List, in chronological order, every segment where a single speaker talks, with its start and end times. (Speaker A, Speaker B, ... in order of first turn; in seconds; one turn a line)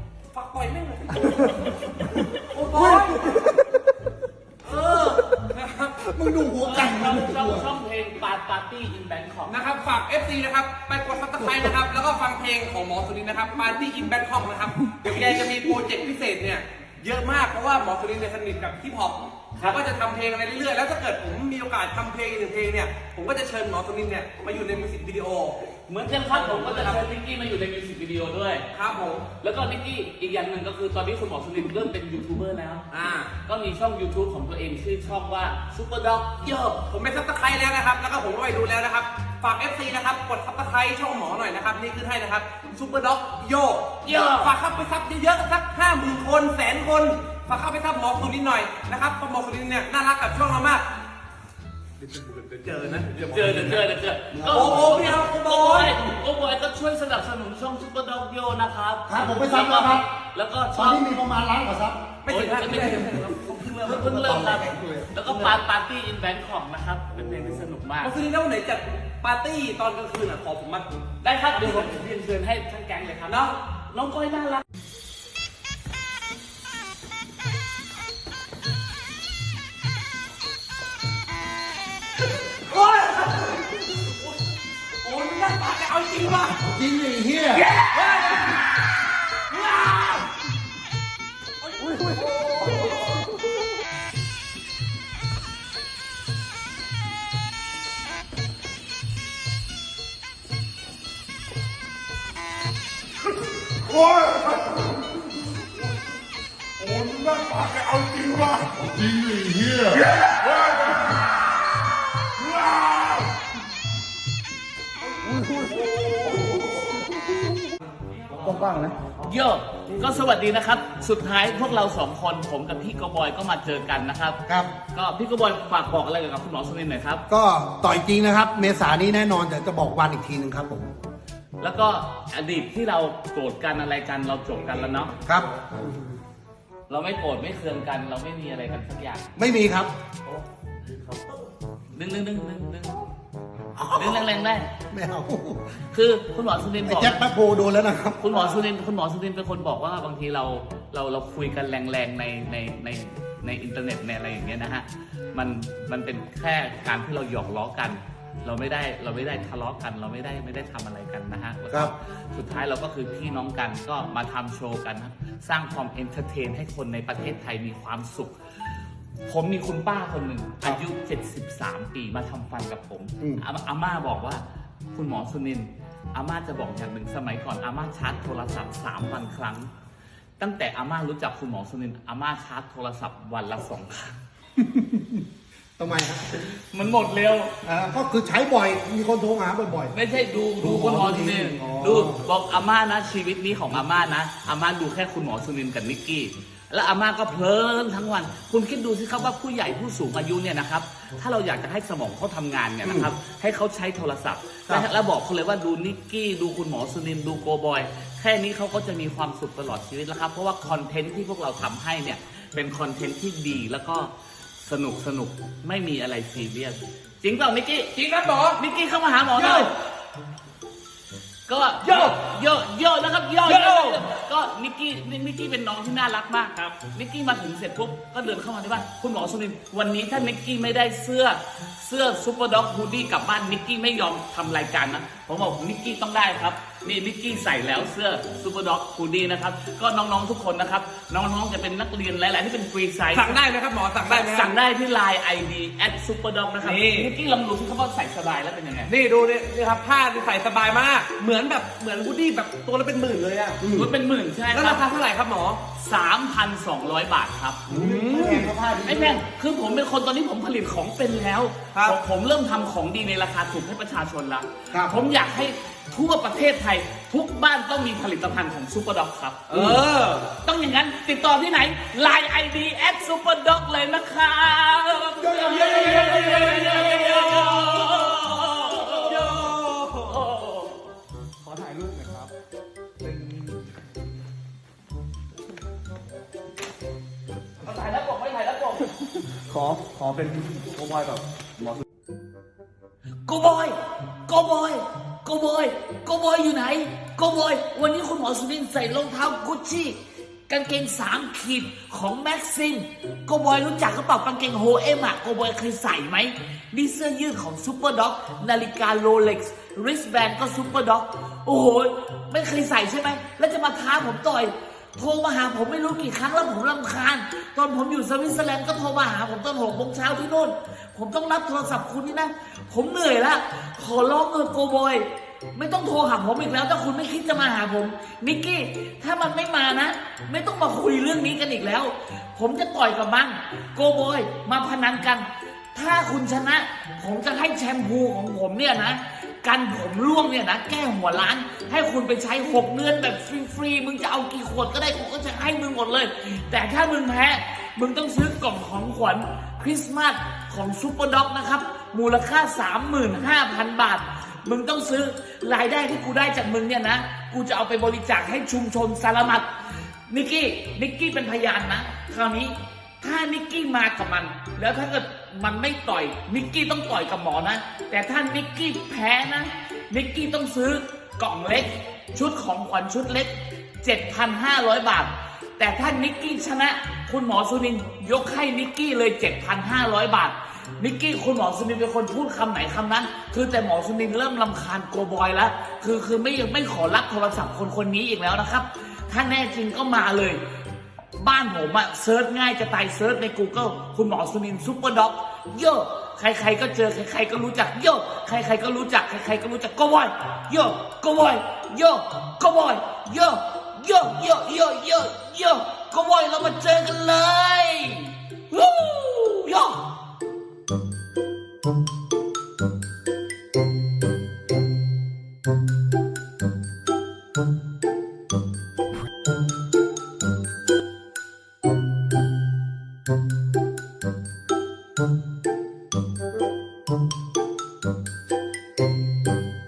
Speaker A: 0.3-1.8
Speaker A: 2.3-3.3
Speaker B: 2.7-3.6
Speaker A: 4.7-6.1
Speaker B: 6.1-7.7
Speaker C: 6.6-9.6
Speaker A: 9.5-25.6
Speaker C: 25.9-28.7
Speaker A: 26.3-27.0
Speaker A: 28.7-29.3
Speaker C: 29.4-32.9
Speaker A: 32.9-33.3
Speaker C: 33.4-36.8
Speaker A: 36.9-50.9
Speaker C: 44.0-44.5
Speaker A: 52.0-53.8
Speaker C: 53.2-61.0
Speaker B: 54.3-55.0
Speaker A: 54.5-56.0
Speaker B: 59.1-60.0
Speaker B: 60.7-62.1
Speaker A: 62.2-64.1
Speaker C: 62.3-68.1
Speaker B: 63.9-65.1
Speaker A: 68.0-71.0
Speaker C: 71.2-74.6
Speaker A: 71.5-72.0
Speaker A: 73.3-73.5
Speaker A: 82.7-84.1
Speaker A: 85.0-86.6
Speaker B: 86.6-87.7
Speaker C: 87.5-88.6
Speaker A: 87.9-88.7
Speaker A: 89.5-90.2
Speaker A: 91.6-92.9
Speaker D: 103.9-105.0
Speaker D: 106.8-111.1
Speaker D: 112.4-113.3
Speaker E: 115.4-115.8
Speaker E: 118.4-119.0
Speaker C: 119.2-124.4
Speaker C: 124.9-127.2
Speaker B: 127.3-130.9
Speaker C: 131.6-135.1
Speaker B: 135.2-136.1
Speaker C: 136.9-139.3
Speaker B: 139.4-139.9
Speaker C: 141.9-143.1
Speaker B: 143.8-144.3
Speaker C: 143.9-144.7
Speaker B: 144.9-145.6
Speaker C: 145.9-147.2
Speaker B: 146.8-148.6
Speaker C: 148.2-168.3
Speaker C: 169.3-174.4
Speaker C: 174.9-179.7
Speaker C: 180.4-184.2
Speaker B: 184.6-185.2
Speaker B: 185.8-186.4
Speaker C: 186.4-187.5
Speaker B: 187.6-189.9
Speaker C: 189.9-214.1
Speaker B: 190.6-192.2
Speaker B: 202.8-203.1
Speaker C: 214.6-217.9
Speaker A: 217.9-218.6
Speaker C: 218.6-219.7
Speaker A: 219.3-219.7
Speaker C: 221.5-243.4
Speaker A: 221.8-222.2
Speaker A: 223.4-224.0
Speaker A: 243.1-244.6
Speaker C: 244.0-248.9
Speaker A: 246.6-247.1
Speaker A: 248.9-253.6
Speaker B: 253.6-253.9
Speaker C: 253.7-254.8
Speaker A: 254.5-255.6
Speaker C: 255.8-257.6
Speaker A: 257.7-258.5
Speaker B: 257.7-259.2
Speaker C: 258.8-269.8
Speaker A: 269.5-270.3
Speaker C: 270.4-279.5
Speaker A: 275.2-277.6
Speaker A: 278.8-280.2
Speaker C: 280.0-280.9
Speaker E: 281.4-282.3
Speaker E: 283.0-283.6
Speaker C: 287.6-288.9
Speaker E: 289.4-291.8
Speaker C: 293.2-359.5
Speaker C: 360.1-390.4
Speaker C: 391.2-410.0